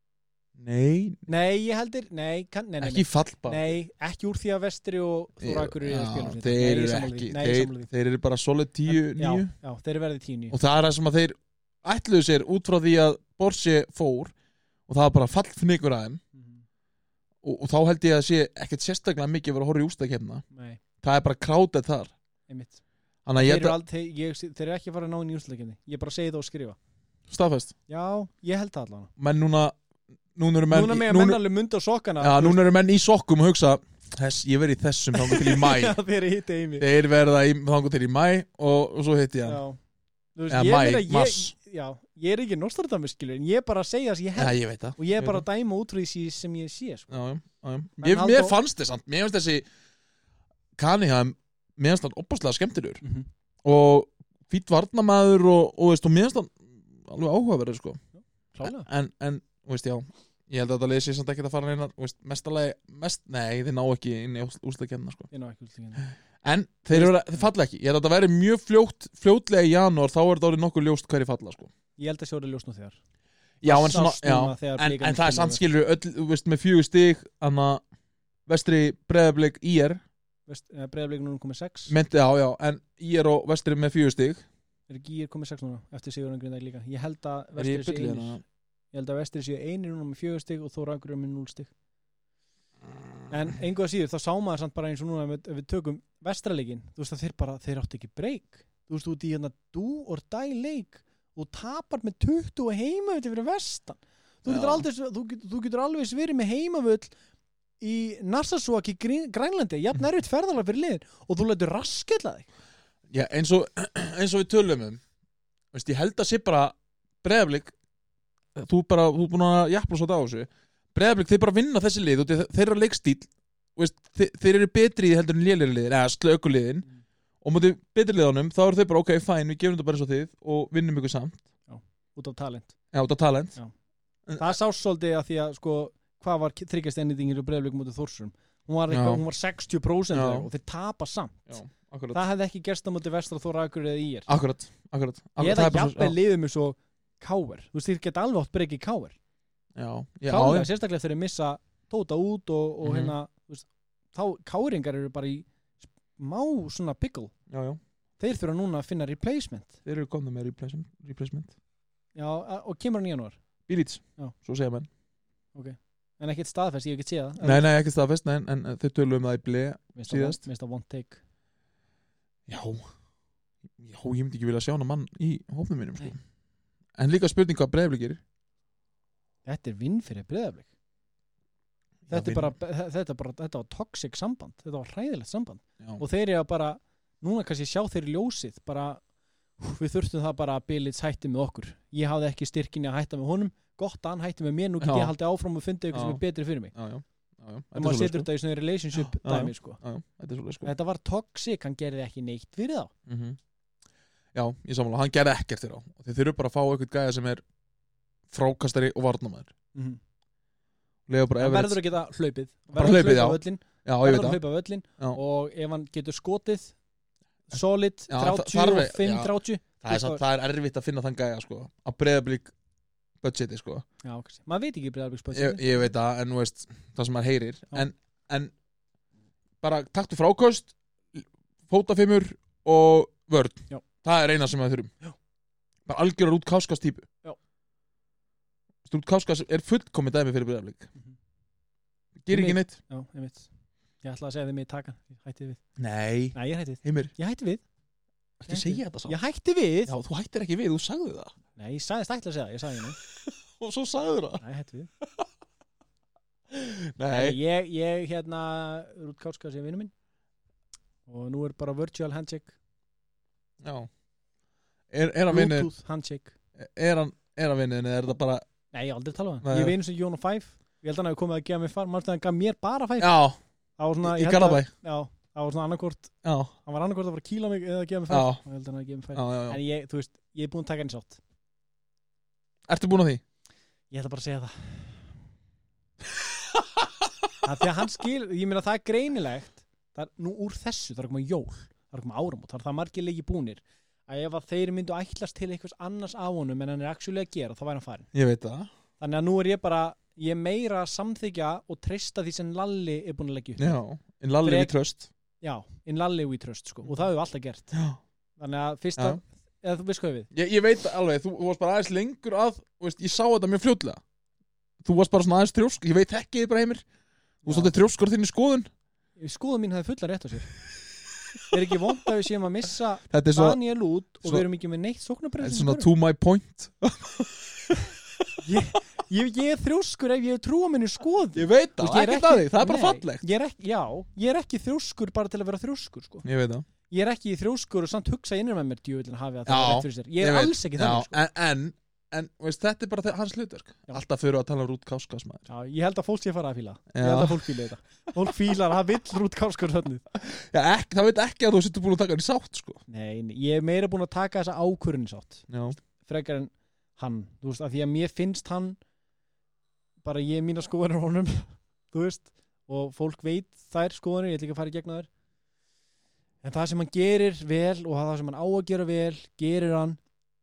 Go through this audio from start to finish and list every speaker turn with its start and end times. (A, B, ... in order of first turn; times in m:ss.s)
0:00.6-0:01.3 A
0:01.3-0:07.9 B
0:02.8-0:03.7 A
0:05.4-0:09.5 A
0:08.9-0:10.6 B
0:10.5-0:14.3 A
0:14.9-0:16.2 A
0:16.3-0:16.6 B
0:17.4-0:20.4 A
0:20.5-0:20.8 B
0:21.0-0:22.1 A
0:22.5-0:22.8 B
0:23.2-0:23.8 A
0:23.3-0:26.8 B
0:27.3-0:27.7 A
0:27.9-0:29.1 B
0:29.2-0:29.8 A
0:30.3-0:31.4 A
0:30.7-0:32.6 B
0:32.2-0:36.0 A
0:35.1-0:36.9 B
0:36.8-0:39.6 A
0:39.4-0:39.8 B
0:40.4-0:47.1 B
0:40.5-0:41.5 A
0:44.4-0:45.4 A
0:47.1-0:49.6 A
0:48.0-0:48.6 B
0:50.8-0:53.0 A
0:53.0-0:53.3 B
0:53.6-0:58.0 A
0:58.2-0:58.9 B
0:58.6-1:05.3 A
1:05.3-1:06.1 B
1:06.4-1:11.7 A
1:06.9-1:07.5 B
1:12.0-1:13.0 B
1:13.6-1:17.8 A
1:13.6-1:15.6 B
1:18.5-1:20.0 A
1:20.5-1:21.9 B
1:21.9-1:24.4 A
1:24.9-1:28.4 B
1:27.6-1:28.4 A
1:28.9-1:31.7 B
1:33.3-1:47.1 B
1:44.4-1:44.8 A
1:47.8-1:52.5 B
1:53.1-1:55.0 A
1:55.7-1:57.7 A
1:58.6-2:06.8 A
2:07.4-2:11.4 A
2:11.7-2:12.7 B
2:12.9-2:13.6 A
2:14.3-2:14.6 A
2:14.4-2:21.5 B
2:18.9-2:19.2 A
2:20.1-2:20.5 A
2:21.5-2:22.2 A
2:22.1-2:24.3 B
2:24.3-2:26.1 A
2:25.4-2:29.2 B
2:29.7-2:30.7 A
2:30.3-2:35.5 B
2:32.8-2:33.1 A
2:36.2-2:37.3 B
2:37.5-2:37.8 A
2:38.2-2:39.8 B
2:39.8-2:41.5 A
2:42.1-2:43.4 B
2:43.7-2:44.9 A
2:45.5-2:47.6 B
2:47.4-2:50.4 A
2:49.9-2:51.2 B
2:52.5-2:52.8 A
2:53.8-2:56.2 A
2:57.0-2:58.2 A
2:59.4-3:00.6 B
3:02.1-3:02.5 A
3:02.1-3:09.0 B
3:09.6-3:16.7 B
3:14.8-3:15.1 A
3:15.9-3:16.2 A
3:16.7-3:18.3 A
3:17.7-3:19.8 B
3:19.0-3:20.7 A
3:20.6-3:22.9 B
3:23.1-3:23.4 A
3:24.3-3:27.4 A
3:28.3-3:29.5 A
3:29.7-3:30.0 B
3:31.1-3:31.8 A
3:31.4-3:36.7 B
3:32.7-3:34.4 A
3:37.5-3:40.2 B
3:38.1-3:42.5 A
3:43.2-3:43.8 A
3:44.0-3:45.9 B
3:45.3-3:48.5 A
3:49.6-3:54.9 A
3:55.8-3:57.1 A
3:58.8-4:00.9 A
4:02.2-4:02.8 A
4:02.3-4:03.5 B
4:04.0-4:05.6 B
4:05.8-4:07.1 A
4:06.3-4:07.6 B
4:08.4-4:09.2 A
4:08.5-4:09.9 B
4:09.8-4:11.3 A
4:11.6-4:13.0 B
4:13.3-4:14.4 A
4:14.4-4:14.9 B
4:16.5-4:17.4 A
4:17.1-4:19.9 B
4:21.1-4:22.5 B
4:23.6-4:23.9 A
4:24.9-4:25.7 A
4:25.3-4:26.3 B
4:26.6-4:28.4 A
4:28.7-4:33.2 B
4:29.4-4:29.7 A
4:33.0-4:33.4 A
4:33.8-4:36.1 B
4:34.0-4:34.7 A
4:36.2-4:36.5 A
4:36.6-4:41.2 B
4:38.1-4:38.4 A
4:39.1-4:39.6 A
4:42.7-4:43.2 A
4:43.9-4:44.9 B
4:47.4-4:58.1 B
4:58.1-4:58.7 A
4:59.0-5:03.8 B
5:03.6-5:05.1 A
5:04.4-5:04.7 B
5:05.4-5:07.7 B
5:07.7-5:08.0 A
5:08.4-5:10.3 B
5:10.3-5:14.0 A
5:14.8-5:16.8 A
5:17.4-5:17.7 B
5:17.4-5:18.7 A
5:19.2-5:20.5 B
5:21.5-5:25.9 B
5:23.1-5:23.6 A
5:25.4-5:27.7 A
5:28.4-5:36.2 B
5:31.3-5:33.2 A
5:36.2-5:36.6 A
5:36.9-5:41.2 B
5:39.4-5:45.4 A
5:45.5-5:50.0 B
5:46.9-5:47.6 A
5:50.1-5:52.8 A
5:52.9-5:58.8 B
5:55.5-5:55.8 A
6:00.0-6:05.1 B
6:06.4-6:10.0 B